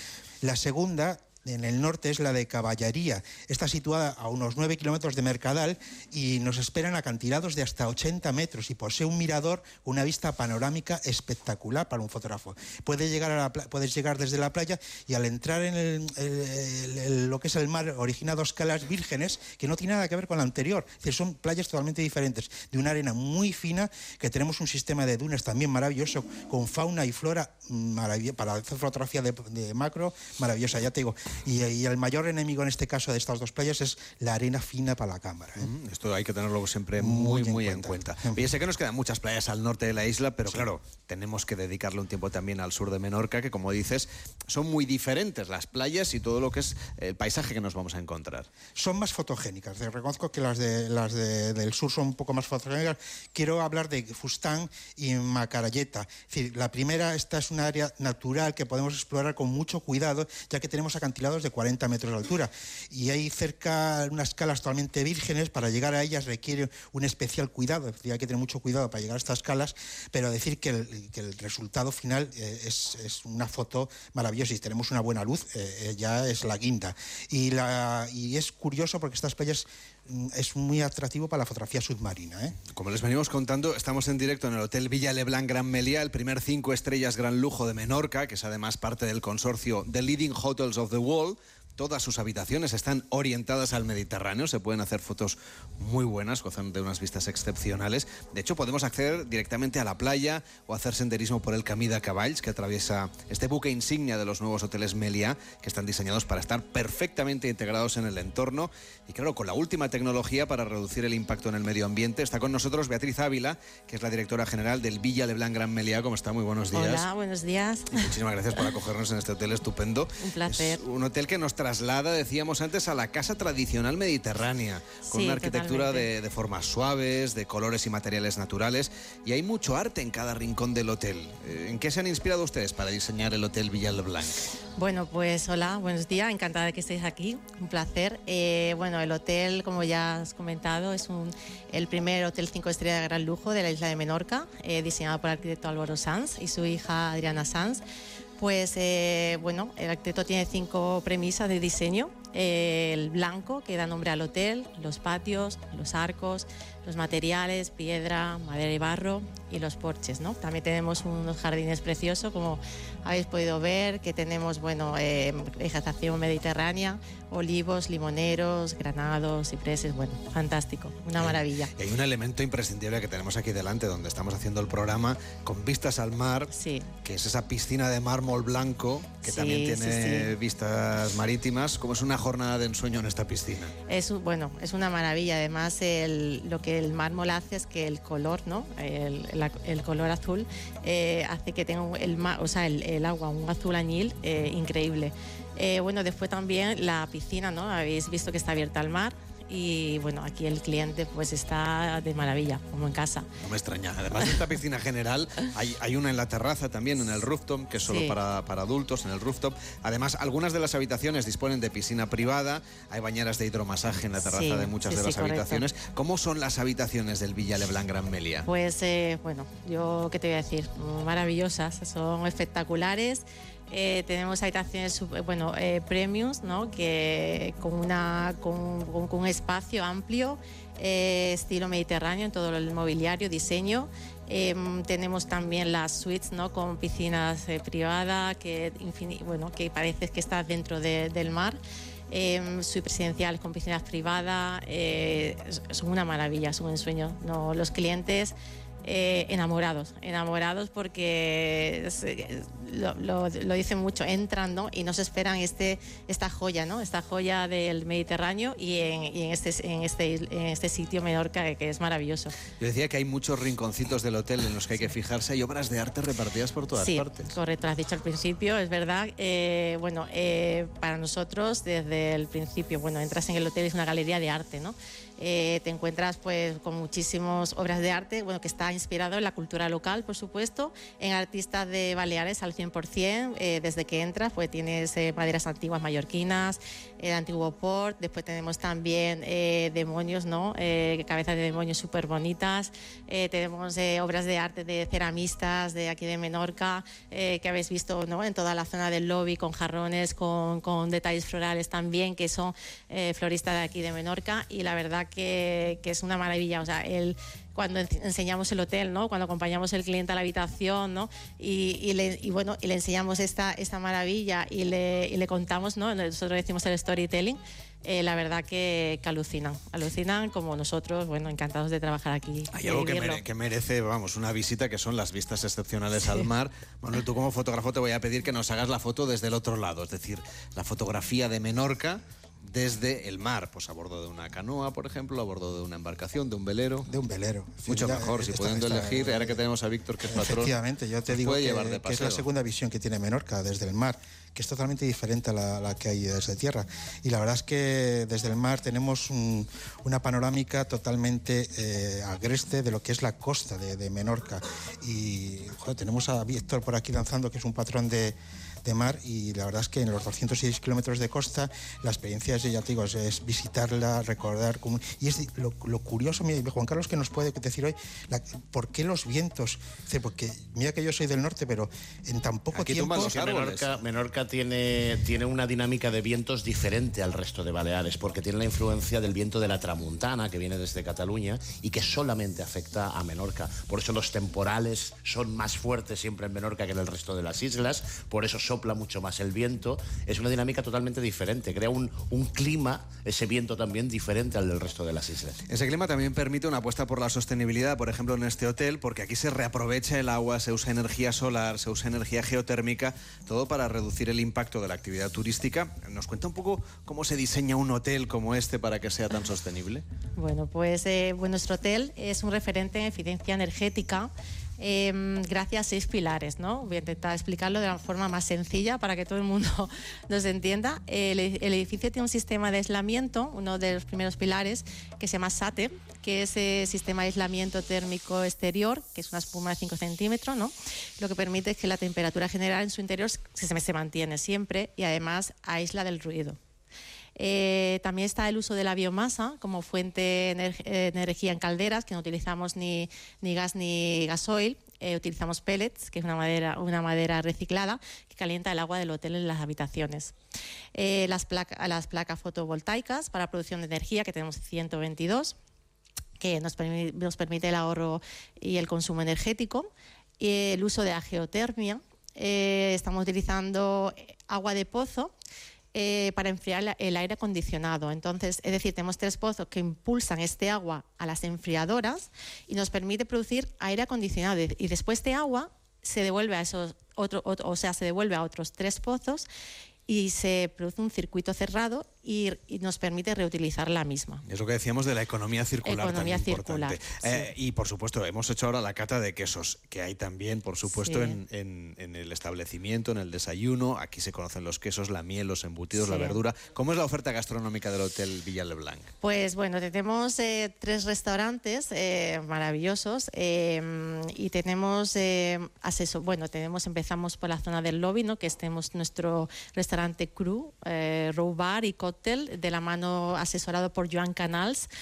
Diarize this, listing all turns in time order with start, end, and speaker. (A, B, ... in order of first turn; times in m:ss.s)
0:00.4-0:35.7 A
0:35.6-0:48.5 B
0:37.0-0:38.4 A
0:48.8-1:22.6 A
1:22.7-1:57.1 B
1:56.7-1:58.1 C
1:57.9-2:14.4 B
2:00.2-2:00.8 C
2:05.1-2:06.1 C
2:14.8-2:27.8 C
2:28.4-2:51.7 C
2:51.2-2:56.5 B
2:56.5-2:56.9 C
2:57.0-3:03.7 B
2:59.2-3:00.3 C
3:03.9-3:23.3 C
3:23.4-3:38.5 B
3:27.9-3:28.2 C
3:34.3-3:35.6 C
3:38.5-4:01.6 C
4:02.1-4:22.4 C
4:22.6-4:27.3 B
4:26.8-5:23.2 C
5:22.5-5:36.9 B
5:36.9-5:39.4 A
5:37.7-5:40.5 B
5:40.1-6:13.1 A
5:41.1-5:42.2 B
6:12.5-6:13.7 B
6:12.9-6:35.4 D
6:35.5-6:49.8 B
6:50.2-7:16.4 C
7:17.2-7:30.1 C
7:30.8-7:35.4 C
7:36.2-7:39.7 C
7:40.2-7:45.1 C
7:45.7-7:59.3 C
7:59.9-8:04.2 C
8:04.2-8:18.9 B
8:05.6-8:07.3 C
8:10.8-8:11.2 C
8:15.8-8:16.2 C
8:19.0-8:34.7 C